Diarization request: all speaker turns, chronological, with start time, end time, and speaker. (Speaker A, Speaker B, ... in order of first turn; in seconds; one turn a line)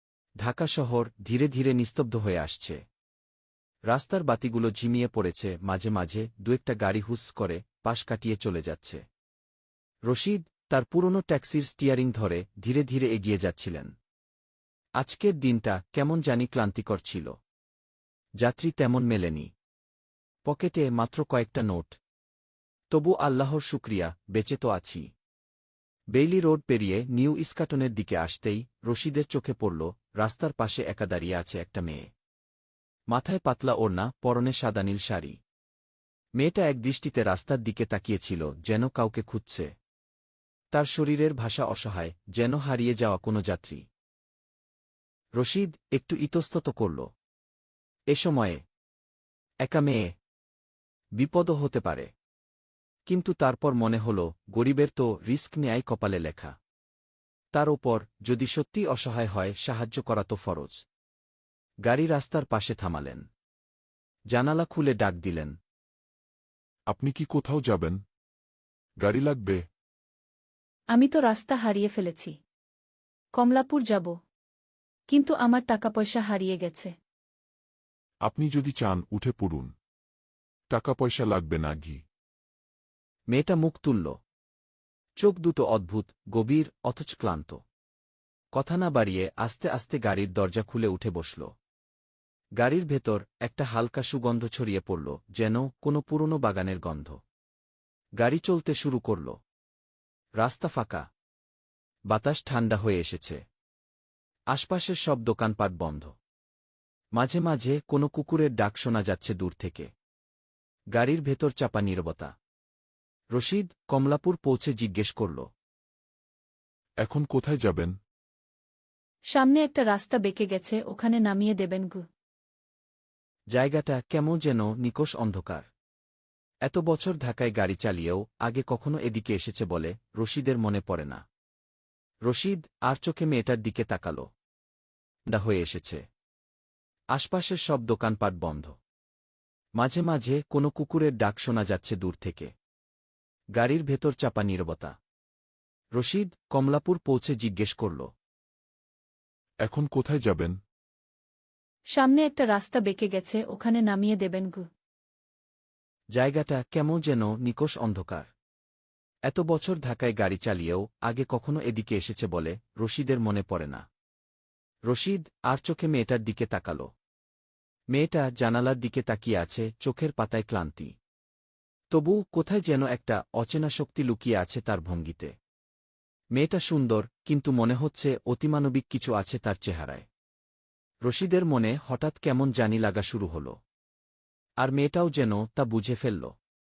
Speaker A: 0.4-2.8
Speaker A: 3.9-9.0
Speaker A: 10.1-13.9
Speaker A: 15.0-17.4
Speaker A: 18.4-19.5
Speaker A: 20.5-22.0
Speaker A: 22.9-25.1
Speaker A: 26.1-32.1
Speaker A: 33.1-35.4
Speaker A: 36.4-39.7
Speaker A: 40.7-43.9
Speaker A: 45.4-47.1
Speaker A: 48.1-48.6
Speaker A: 49.6-50.1
Speaker A: 51.2-52.1
Speaker A: 53.1-56.5
Speaker A: 57.5-60.8
Speaker A: 61.9-63.2
Speaker A: 64.3-65.5
Speaker B: 66.9-68.0
Speaker B: 69.0-69.6
Speaker C: 70.9-72.4
Speaker C: 73.3-74.1
Speaker C: 75.1-76.9
Speaker B: 78.2-79.7
Speaker B: 80.7-82.0
Speaker A: 83.3-84.2
Speaker A: 85.2-87.6
Speaker A: 88.5-91.5
Speaker A: 92.6-97.2
Speaker A: 98.2-99.4
Speaker A: 100.4-101.1
Speaker A: 102.1-103.4
Speaker A: 104.5-106.2
Speaker A: 107.2-109.9
Speaker A: 110.9-112.3
Speaker A: 113.3-115.5
Speaker B: 117.0-117.9
Speaker C: 119.3-122.0
Speaker A: 123.5-125.7
Speaker A: 126.7-131.2
Speaker A: 132.3-134.3
Speaker A: 135.3-136.0
Speaker A: 137.1-138.8
Speaker A: 139.8-142.5
Speaker A: 143.6-144.9
Speaker A: 145.9-148.1
Speaker B: 149.6-150.6
Speaker C: 151.9-154.7
Speaker A: 156.2-158.3
Speaker A: 159.3-163.8
Speaker A: 164.9-166.9
Speaker A: 167.9-170.9
Speaker A: 171.9-175.3
Speaker A: 176.3-180.1
Speaker A: 181.1-183.6
Speaker A: 184.6-186.3